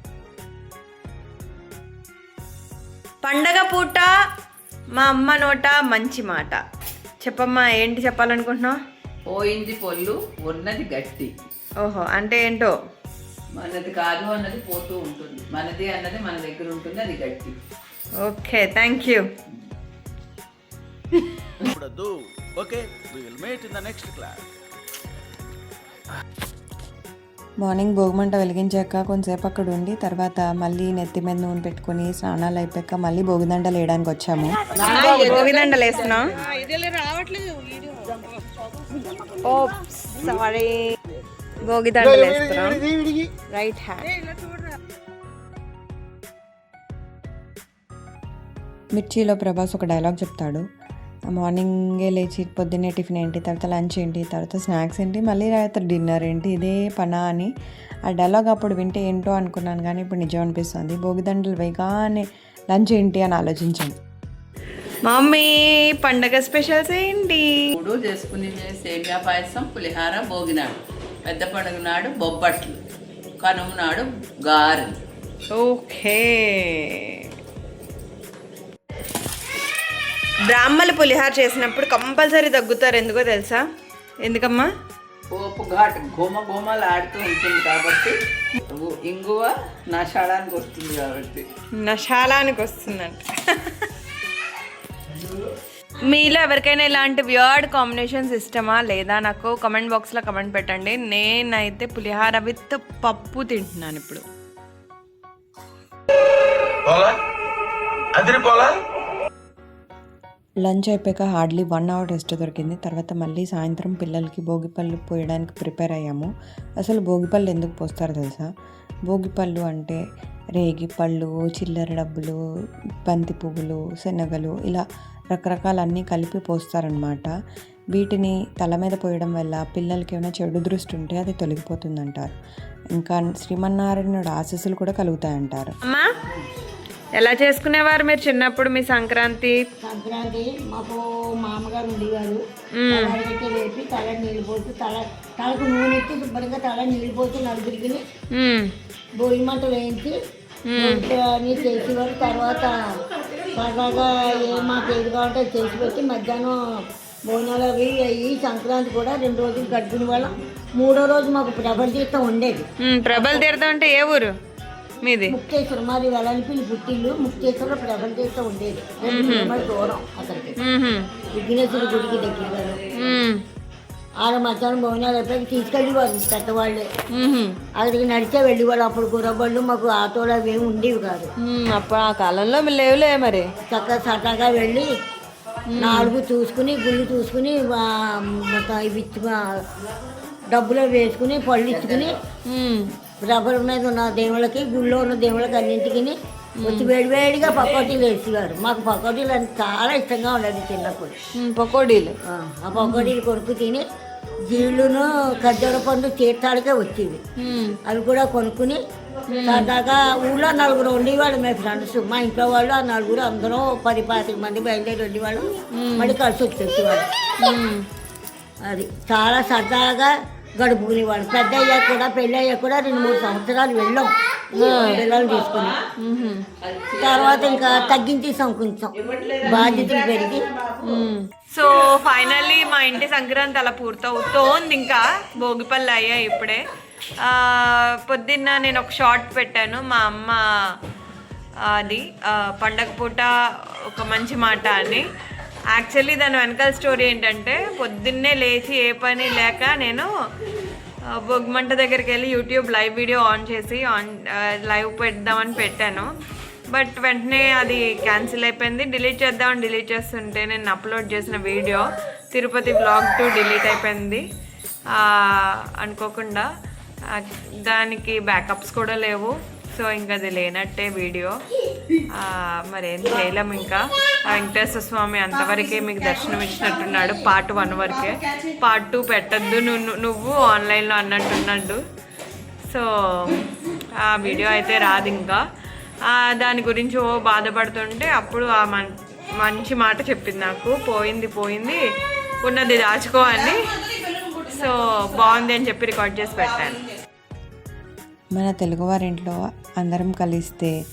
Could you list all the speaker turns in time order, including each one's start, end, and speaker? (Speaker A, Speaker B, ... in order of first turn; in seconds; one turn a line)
Speaker A: 3.2-4.1
Speaker A: 5.0-6.6
Speaker A: 7.2-8.8
Speaker B: 9.3-11.3
Speaker A: 11.8-12.7
Speaker B: 13.5-17.6
Speaker A: 18.2-19.3
Speaker C: 21.7-24.4
Speaker D: 27.6-34.6
Speaker E: 34.5-37.2
Speaker A: 34.8-36.3
Speaker E: 38.9-39.4
Speaker A: 39.4-40.8
Speaker A: 41.7-42.9
Speaker A: 43.5-44.1
Speaker D: 49.0-50.6
Speaker D: 51.3-57.5
Speaker D: 58.1-64.0
Speaker A: 65.0-67.5
Speaker B: 67.7-72.8
Speaker B: 73.4-75.0
Speaker A: 75.5-77.2
Speaker A: 80.5-83.6
Speaker A: 84.2-84.7
Speaker B: 85.3-88.2
Speaker B: 88.7-91.5
Speaker A: 91.8-93.9
Speaker A: 96.0-104.2
Speaker C: 106.9-107.2
Speaker C: 108.2-108.8
Speaker D: 110.6-116.3
Speaker D: 116.8-118.5
Speaker D: 119.1-120.0
Speaker D: 120.6-122.4
Speaker D: 123.1-127.3
Speaker D: 127.9-132.3
Speaker D: 132.9-135.8
Speaker A: 135.8-136.1
Speaker A: 137.2-139.6
Speaker E: 139.8-148.0
Speaker A: 142.8-143.2
Speaker A: 148.3-148.7
Speaker E: 149.2-150.2
Speaker A: 150.7-151.1
Speaker E: 150.8-152.8
Speaker E: 153.5-156.6
Speaker E: 157.2-163.4
Speaker A: 162.8-164.3
Speaker A: 165.0-165.3
Speaker E: 165.3-170.6
Speaker A: 169.0-169.6
Speaker A: 170.6-171.1
Speaker E: 171.3-172.8
Speaker A: 172.9-173.4
Speaker E: 174.2-176.9
Speaker A: 177.1-177.6
Speaker E: 177.8-181.3
Speaker A: 181.4-183.5
Speaker E: 183.7-184.9
Speaker A: 185.7-186.1
Speaker E: 185.8-189.3
Speaker E: 190.5-192.2
Speaker B: 191.7-192.1
Speaker A: 192.5-192.9
Speaker E: 193.2-201.2
Speaker A: 196.6-196.9
Speaker A: 201.3-202.2
Speaker E: 202.3-203.8
Speaker A: 202.8-203.1
Speaker E: 204.5-207.2
Speaker A: 207.4-207.8
Speaker E: 207.8-208.8
Speaker A: 209.3-209.7
Speaker E: 209.4-217.1
Speaker A: 215.7-216.2
Speaker A: 217.4-217.8
Speaker E: 218.6-225.8
Speaker A: 224.5-225.0
Speaker A: 226.0-226.5
Speaker B: 226.6-228.0
Speaker E: 227.0-230.5
Speaker A: 229.4-229.9
Speaker A: 230.8-236.6
Speaker A: 237.2-240.4
Speaker A: 241.7-243.3
Speaker A: 243.9-245.1
Speaker A: 245.7-250.1
Speaker A: 251.2-256.1
Speaker A: 256.7-264.2
Speaker A: 264.9-266.5
Speaker A: 267.1-271.4
Speaker A: 272.1-281.8
Speaker A: 282.7-283.4
Speaker A: 284.0-285.4
Speaker A: 286.1-291.8
Speaker A: 292.4-296.8
Speaker D: 298.4-300.7